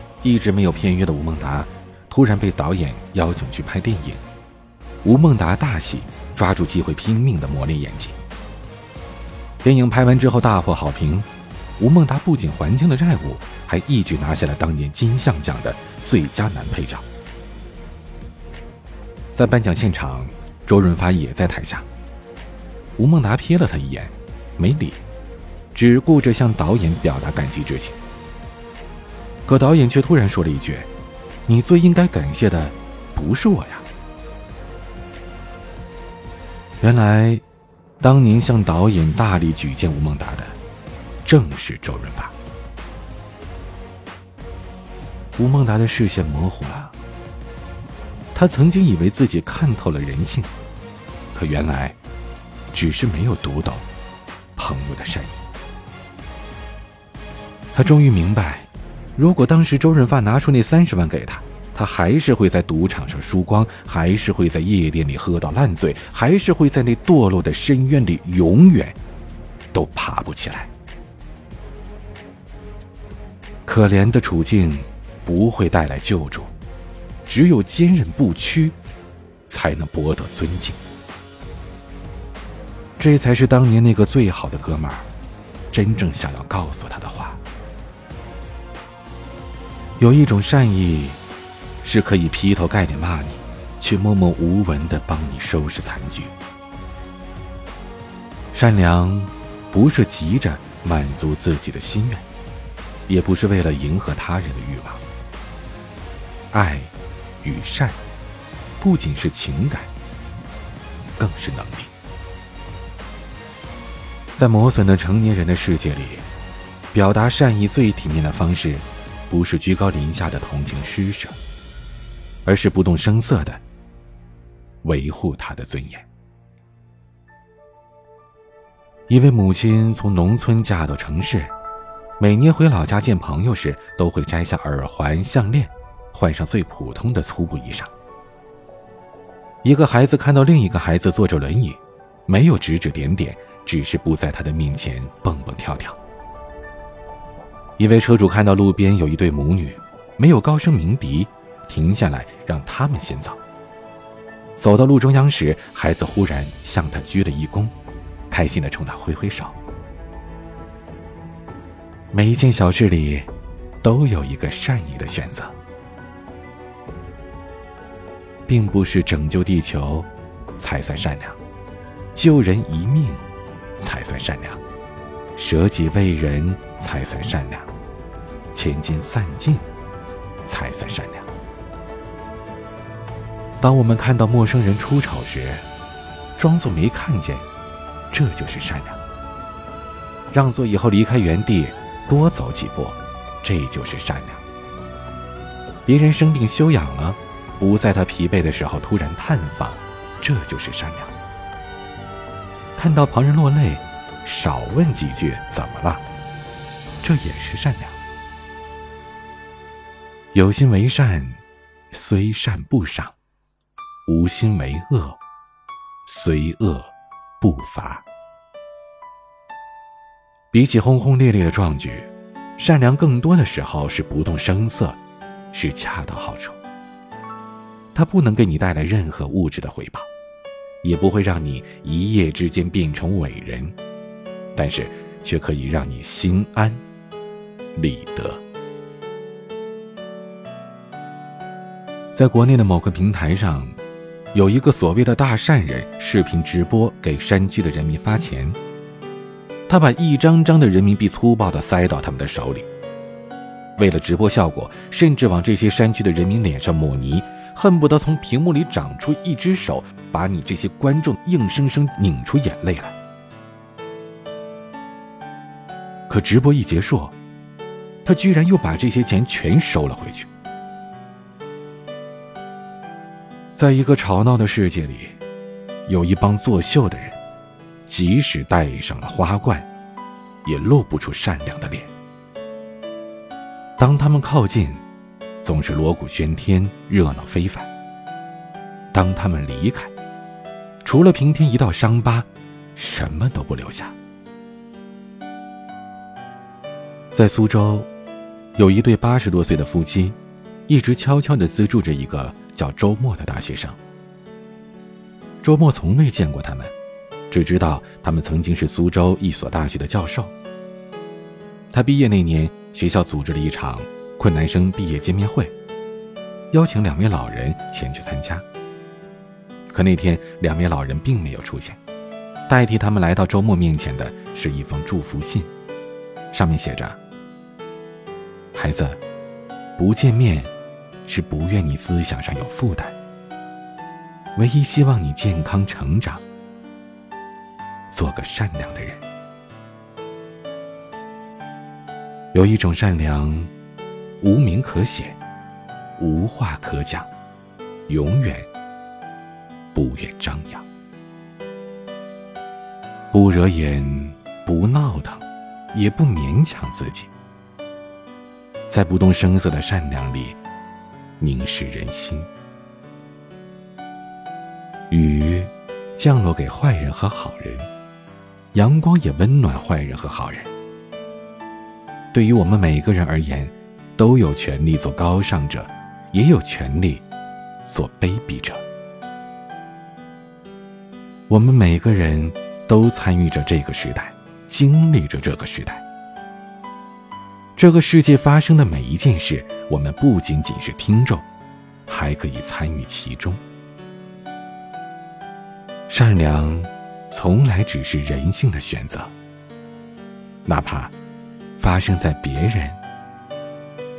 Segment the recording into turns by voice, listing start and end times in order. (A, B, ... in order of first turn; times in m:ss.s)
0:00.2-0:04.2 A
0:05.0-0:08.2 A
0:09.6-0:11.3 A
0:11.8-0:17.0 A
0:19.3-0:21.9 A
0:23.0-0:25.0 A
0:25.7-0:28.0 A
0:29.5-0:30.9 A
0:31.4-0:33.9 A
0:36.8-0:37.4 A
0:38.0-0:40.6 A
0:41.2-0:42.3 A
0:45.4-0:46.9 A
0:48.3-0:50.5 A
0:51.3-0:52.0 A
0:52.7-0:53.9 A
0:54.6-0:55.4 A
0:57.7-1:09.0 A
1:09.7-1:10.7 A
1:13.6-1:16.5 A
1:17.2-1:18.8 A
1:19.5-1:20.8 A
1:23.0-1:25.1 A
1:25.7-1:27.4 A
1:30.0-1:31.2 A
1:31.8-1:36.3 A
1:38.5-1:42.2 A
1:43.1-1:45.0 A
1:46.5-1:48.0 A
1:48.8-1:49.9 A
1:51.2-1:51.9 A
1:54.3-1:56.3 A
1:56.9-2:01.4 A
2:02.4-2:03.6 A
2:04.8-2:06.0 A
2:09.1-2:11.5 A
2:12.2-2:17.9 A
2:19.6-2:26.0 A
2:27.8-2:33.4 A
2:34.6-2:37.7 A
2:38.3-2:39.6 A
2:42.1-2:43.3 A
2:43.8-2:45.5 A
2:48.5-2:51.4 A
2:52.1-2:53.2 A
2:53.8-2:54.6 A
2:55.3-2:57.7 A
2:58.5-2:59.7 A
3:00.4-3:01.3 A
3:03.6-3:05.7 A
3:06.4-3:07.5 A
3:08.1-3:09.0 A
3:10.3-3:14.4 A
3:15.8-3:21.1 A
3:22.8-3:26.0 A
3:27.0-3:28.0 A
3:30.3-3:33.1 A
3:34.0-3:35.2 A
3:36.0-3:38.0 A
3:40.5-3:45.0 A
3:45.5-3:46.6 A
3:47.9-3:50.1 A
3:50.8-3:53.7 A
3:54.5-3:56.8 A
3:57.7-3:58.4 A
4:02.1-4:03.7 A
4:04.3-4:08.6 A
4:09.7-4:12.7 A
4:13.8-4:23.0 A
4:26.1-4:27.2 A
4:28.0-4:30.3 A
4:33.6-4:35.2 A
4:35.8-4:37.2 A
4:37.9-4:39.7 A
4:40.4-4:41.9 A
4:43.8-4:44.8 A
4:45.4-4:47.7 A
4:48.9-4:49.9 A
4:50.8-4:53.9 A
4:57.1-4:57.9 A
4:58.6-5:03.8 A
5:05.4-5:06.7 A
5:07.3-5:10.3 A
5:11.7-5:15.5 A
5:16.5-5:18.4 A
5:19.7-5:21.8 A
5:22.5-5:25.5 A
5:26.3-5:27.0 A
5:28.5-5:29.0 A
5:29.8-5:30.5 A
5:31.0-5:33.0 A
5:34.4-5:36.2 A
5:37.9-5:39.0 A
5:42.3-5:43.5 A
5:44.2-5:45.2 A
5:46.0-5:47.1 A
5:47.9-5:48.5 A
5:49.7-5:50.6 A
5:53.1-5:57.1 A
5:58.7-6:00.4 A
6:01.2-6:02.3 A
6:04.9-6:07.7 A
6:08.5-6:10.5 A
6:12.1-6:17.0 A
6:17.6-6:18.6 A
6:21.3-6:25.8 A
6:27.6-6:31.2 A
6:31.9-6:33.4 A
6:35.9-6:39.1 A
6:40.4-6:40.9 A
6:41.6-6:42.8 A